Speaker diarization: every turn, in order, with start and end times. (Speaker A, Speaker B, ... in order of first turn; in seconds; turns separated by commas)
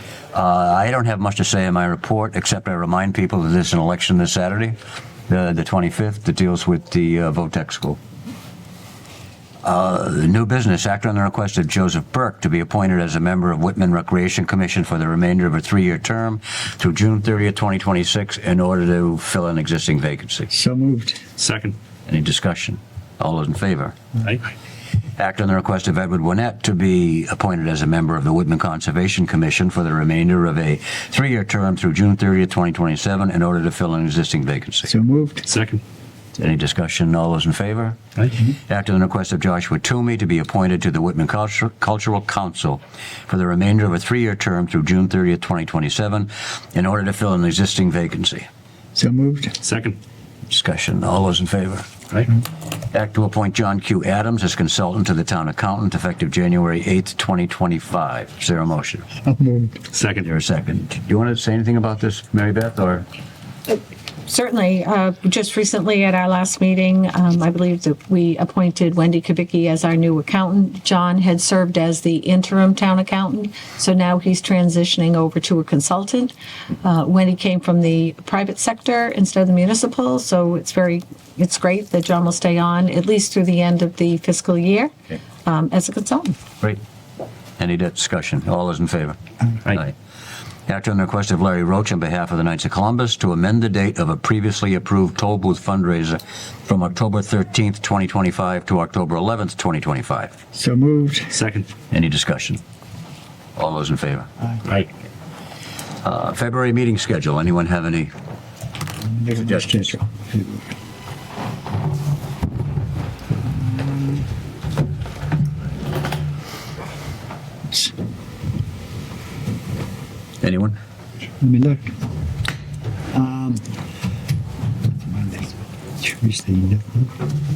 Speaker A: 0.3-4.8, Speaker A: 5.3-8.0, Speaker A: 9.6-20.5, Speaker B: 20.5-21.2, Speaker C: 21.4-21.8, Speaker A: 22.1-24.0, Speaker A: 25.2-34.9, Speaker B: 34.9-35.4, Speaker C: 35.5-35.8, Speaker A: 36.4-48.5, Speaker B: 49.0-49.6, Speaker C: 49.6-50.0, Speaker A: 50.5-51.9, Speaker A: 52.9-59.1, Speaker B: 59.2-59.8, Speaker C: 59.9-60.2, Speaker A: 60.2-63.1, Speaker D: 63.7-84.9, Speaker D: 85.4-86.4, Speaker A: 87.6-90.0, Speaker A: 90.7-100.4, Speaker B: 100.5-101.4, Speaker C: 101.3-101.7, Speaker A: 101.9-102.6, Speaker A: 103.6-104.3, Speaker A: 106.0-108.1, Speaker B: 109.0-110.7, Speaker A: 109.4-109.8, Speaker B: 113.5-114.2, Speaker A: 120.4-120.8, Speaker B: 121.4-121.9, Speaker B: 123.1-123.6, Speaker B: 124.9-127.1